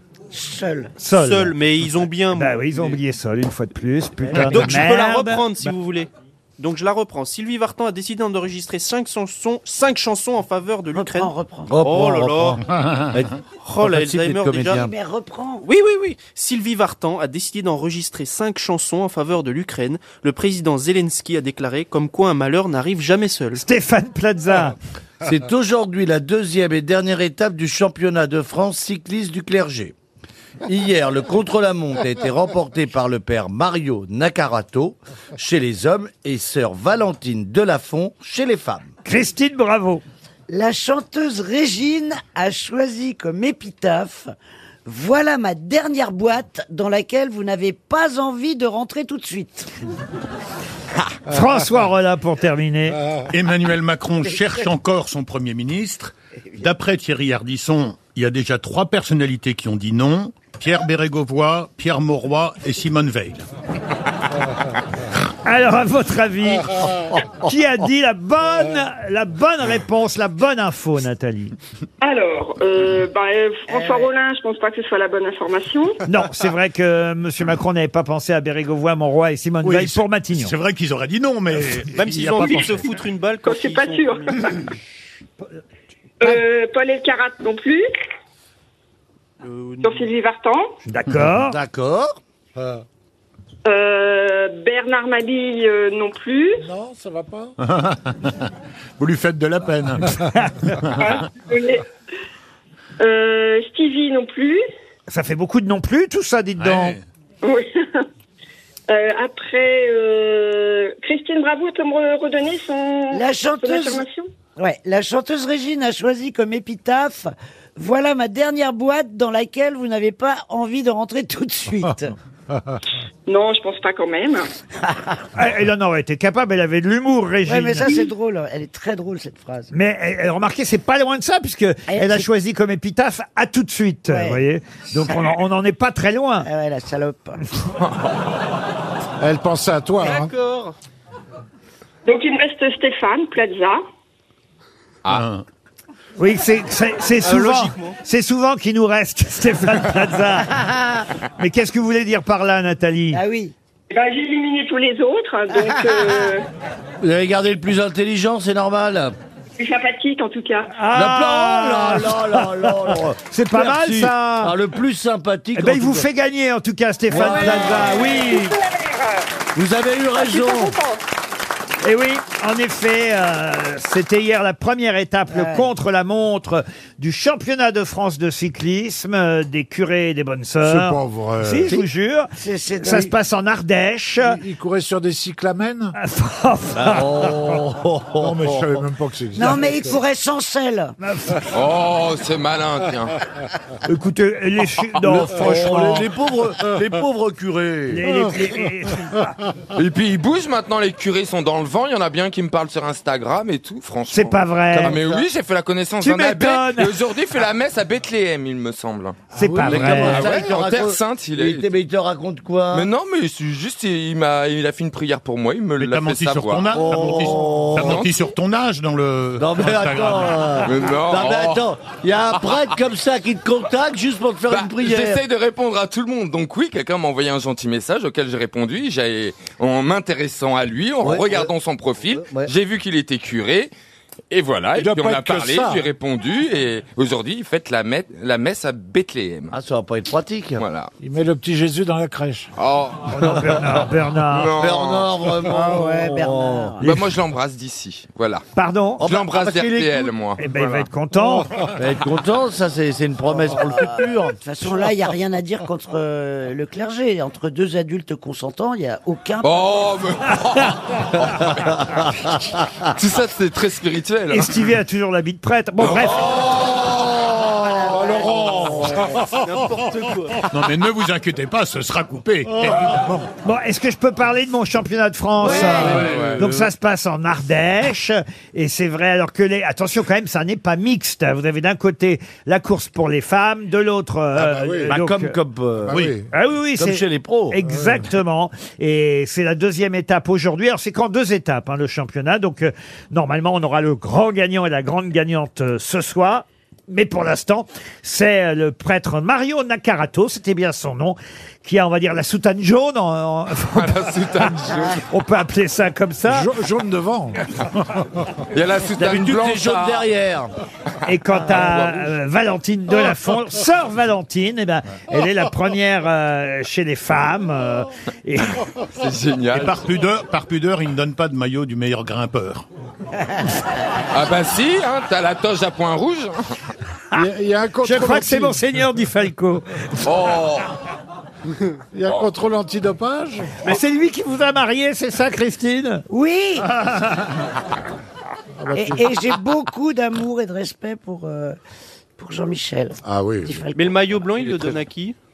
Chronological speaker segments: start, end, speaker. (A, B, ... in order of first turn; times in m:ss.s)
0:00.3-0:01.0 A
0:01.0-0:01.6 B
0:01.1-0:03.0 C
0:02.3-0:05.7 B
0:04.3-0:04.6 A
0:04.4-0:14.9 C
0:10.9-0:11.8 A
0:11.7-0:14.9 D
0:14.7-0:15.7 A
0:15.6-0:23.6 C
0:23.6-0:24.8 B
0:25.2-0:29.9 D
0:30.6-0:38.9 D
0:39.0-0:40.0 B
0:40.5-0:44.3 A
0:44.9-0:49.7 A
0:51.3-0:53.0 B
0:53.3-1:03.4 E
1:05.4-1:11.6 B
1:12.0-1:16.0 F
1:13.7-1:14.1 A
1:16.1-1:20.6 B
1:19.6-1:22.9 E
1:21.9-1:24.4 C
1:23.4-1:24.7 F
1:26.2-1:27.9 F
1:29.4-1:30.1 C
1:29.8-1:30.8 F
1:30.9-1:31.6 B
1:31.5-1:32.2 D
1:33.6-1:36.7 F
1:36.7-1:37.6 G
1:37.6-1:40.2 E
1:40.4-1:40.7 B
1:40.9-1:41.2 E
1:41.0-1:41.9 F
1:43.0-1:44.6 F
1:45.1-1:47.0 B
1:46.6-1:47.0 E
1:47.4-1:48.1 F
1:48.9-1:54.3 F
1:53.1-1:54.0 A
1:54.6-2:02.1 A
2:03.3-2:04.5 F
2:04.8-2:05.2 A
2:05.4-2:08.1 B
2:07.5-2:09.7 A
2:09.7-2:16.5 B
2:11.9-2:12.3 A
2:14.1-2:14.4 A
2:16.4-2:17.6 A
2:19.2-2:20.3 G
2:20.0-2:20.8 C
2:22.0-2:23.8 F
2:25.1-2:25.4 E
2:26.2-2:30.6 B
2:27.2-2:28.0 C
2:31.4-2:33.2 B
2:33.1-2:33.5 A
2:33.9-2:36.5 F
2:37.0-2:39.1 D
2:39.6-2:40.8 F
2:40.8-2:44.6 B
2:40.9-2:46.1 D
2:45.6-2:48.6 B
2:47.1-2:48.1 D
2:47.2-2:49.4 F
2:49.6-2:50.8 D
2:50.2-2:51.0 F
2:51.8-3:04.4 B
2:55.3-2:55.7 A
3:00.6-3:01.7 G
3:02.4-3:03.1 A
3:04.2-3:06.0 G
3:06.0-3:07.6 B
3:06.8-3:08.8 D
3:08.2-3:10.0 G
3:09.4-3:11.0 A
3:11.0-3:11.5 B
3:11.5-3:13.2 H
3:13.8-3:16.1 B
3:15.0-3:18.0 D
3:17.9-3:19.3 B
3:19.7-3:31.7 H
3:24.1-3:25.0 B
3:24.7-3:25.3 D
3:26.0-3:27.0 B
3:29.3-3:30.3 B
3:29.4-3:32.9 D
3:32.7-3:36.7 H
3:35.8-3:40.7 E
3:36.7-3:38.0 D
3:37.8-3:38.2 H
3:39.4-3:45.2 D
3:40.7-3:41.7 H
3:44.5-3:53.7 H
3:51.0-3:51.5 D
3:52.1-3:52.5 D
3:54.3-3:59.5 H
3:54.8-3:55.9 G
3:59.5-4:00.6 D
4:00.6-4:00.9 H
4:01.0-4:02.5 G
4:02.6-4:03.3 H
4:03.1-4:04.5 B
4:04.3-4:05.3 H
4:04.6-4:06.8 D
4:05.6-4:06.9 A
4:06.8-4:08.4 H
4:08.6-4:09.1 B
4:09.0-4:10.1 D
4:09.0-4:10.8 H
4:10.4-4:11.5 B
4:11.8-4:14.4 D
4:13.4-4:19.7 A
4:19.4-4:21.8 H
4:22.9-4:24.5 H
4:24.3-4:26.4 B
4:26.5-4:26.8 H
4:27.2-4:27.5 D
4:27.6-4:29.0 A
4:28.1-4:29.2 G
4:29.3-4:30.4 C
4:30.5-4:32.9 E
4:32.9-4:33.3 G
4:33.4-4:45.4 B
4:35.4-4:36.4 D
4:35.9-4:36.4 H
4:36.1-4:36.4 E
4:44.4-4:45.0 G
4:44.8-4:46.1 D
4:45.9-4:46.3 G
4:46.3-5:06.5 B
4:46.8-4:47.6 D
4:47.7-4:48.0 G
5:03.7-5:05.0 H
5:06.3-5:08.0 G
5:08.5-5:10.1 H
5:09.0-5:10.5 D
5:11.0-5:18.6 B
5:11.5-5:12.1 H
5:18.9-5:19.8 H
5:19.5-5:22.6 E
5:24.1-5:26.4 H
5:27.1-5:28.6 G
5:27.8-5:29.8 B
5:30.0-5:30.7 H
5:31.9-5:33.7 G
5:33.6-5:36.0 B
5:36.1-5:36.7 A
5:36.6-5:37.4 B
5:38.6-5:39.0 G
5:38.7-5:41.6 A
5:42.2-5:44.1 A
5:43.0-5:43.6 G
5:43.7-5:45.2 C